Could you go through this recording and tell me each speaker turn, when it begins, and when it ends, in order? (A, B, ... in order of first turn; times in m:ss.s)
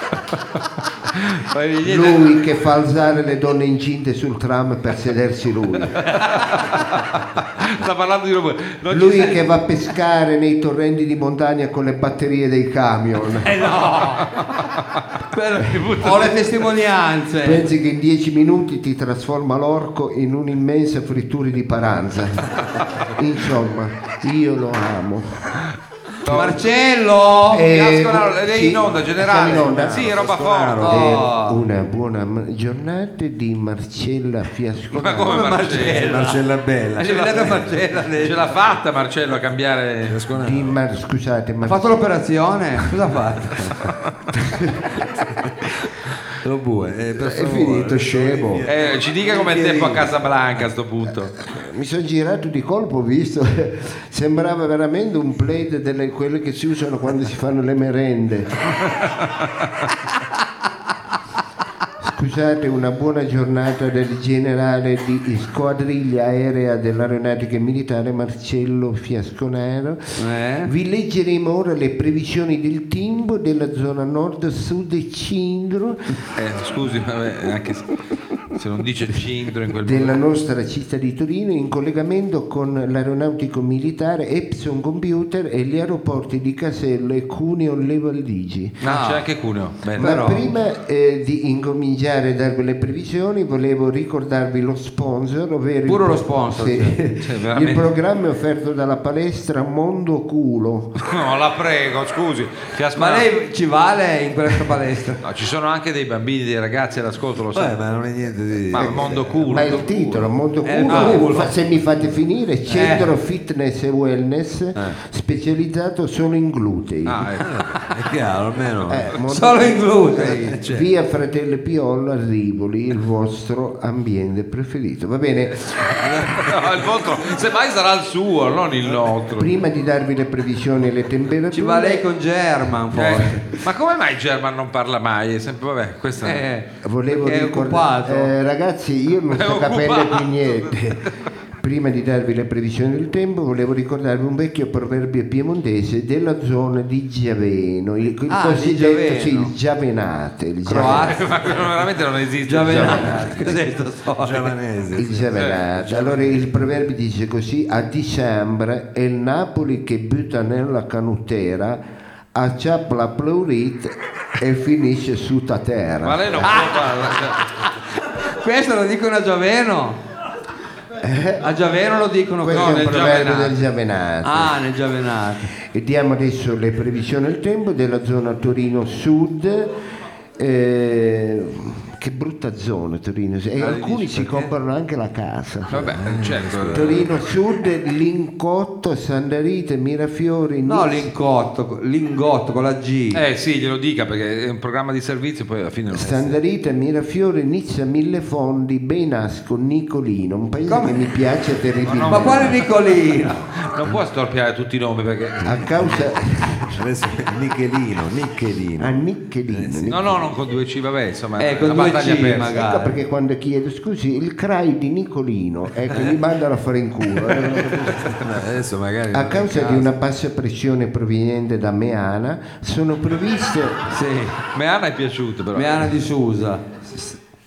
0:01.1-0:02.4 A
0:01.8-0:06.0 B
0:06.0-0:09.5 A
0:08.9-0:13.5 B
0:13.4-0:14.4 C
0:14.3-0:16.5 A
0:15.4-0:17.7 C
0:17.4-0:25.6 B
0:26.2-0:26.6 A
0:26.3-0:27.7 C
0:27.5-0:30.1 B
0:27.6-0:31.1 A
0:29.3-0:31.2 D
0:30.8-0:31.6 C
0:30.8-0:35.6 B
0:34.9-0:36.2 A
0:35.2-0:36.4 C
0:35.8-0:37.7 D
0:37.0-0:38.4 C
0:38.2-0:40.2 A
0:40.1-0:40.7 D
0:40.4-0:42.0 B
0:41.6-0:43.8 C
0:44.4-0:44.8 B
0:46.4-0:50.1 D
0:47.1-0:48.7 B
0:48.7-0:51.4 A
0:51.4-0:58.5 B
1:02.0-1:16.1 B
1:10.2-1:10.7 C
1:16.3-1:17.9 A
1:18.5-1:20.2 A
1:19.8-1:28.8 B
1:28.8-1:30.1 A
1:28.8-1:29.2 C
1:30.0-1:30.4 C
1:30.0-1:40.9 B
1:35.8-1:37.0 C
1:37.2-1:37.8 A
1:41.0-1:43.3 A
1:43.0-1:45.2 C
1:45.2-1:47.8 A
1:47.5-1:49.7 D
1:48.7-1:50.2 A
1:48.8-1:57.3 B
1:50.6-1:51.5 C
1:50.9-1:51.2 A
1:52.7-1:53.1 C
1:57.0-1:57.6 A
1:57.4-1:59.1 D
1:58.8-2:06.3 B
1:59.2-2:00.6 C
2:00.2-2:00.9 D
2:06.2-2:09.5 A
2:09.3-2:12.1 B
2:11.5-2:13.6 C
2:12.9-2:16.5 A
2:16.2-2:18.3 C
2:16.8-2:21.1 B
2:19.3-2:21.1 A
2:21.6-2:31.3 B
2:28.3-2:29.5 C
2:30.6-2:31.3 C
2:30.7-2:33.3 A
2:32.4-2:34.5 C
2:32.6-2:33.3 B
2:34.2-2:36.3 D
2:34.9-2:41.8 B
2:35.3-2:35.6 A
2:42.3-2:46.6 B
2:46.0-2:47.6 A
2:46.5-2:46.7 C
2:48.4-2:50.0 C
2:51.0-2:51.5 B
2:51.4-2:52.8 C
2:52.4-2:54.6 B
2:52.5-2:53.6 A
2:54.2-2:55.5 C
2:55.5-2:59.7 B
3:00.4-3:05.9 B
3:03.6-3:04.4 A
3:05.7-3:07.1 A
3:05.8-3:07.1 D
3:06.7-3:11.1 B
3:10.6-3:13.2 C
3:13.1-3:16.4 A
3:15.9-3:22.6 B
3:20.7-3:21.0 C
3:21.8-3:22.7 A
3:22.1-3:23.4 C
3:23.5-3:25.8 A
3:25.4-3:26.8 B
3:26.7-3:29.0 D
3:28.8-3:30.2 B
3:29.5-3:30.0 D
3:29.9-3:32.5 A
3:31.4-3:33.0 C
3:32.5-3:38.1 B
3:37.6-3:39.9 D
3:39.1-3:43.8 B
3:43.9-3:44.4 C
3:44.5-3:45.9 A
3:45.5-3:46.6 C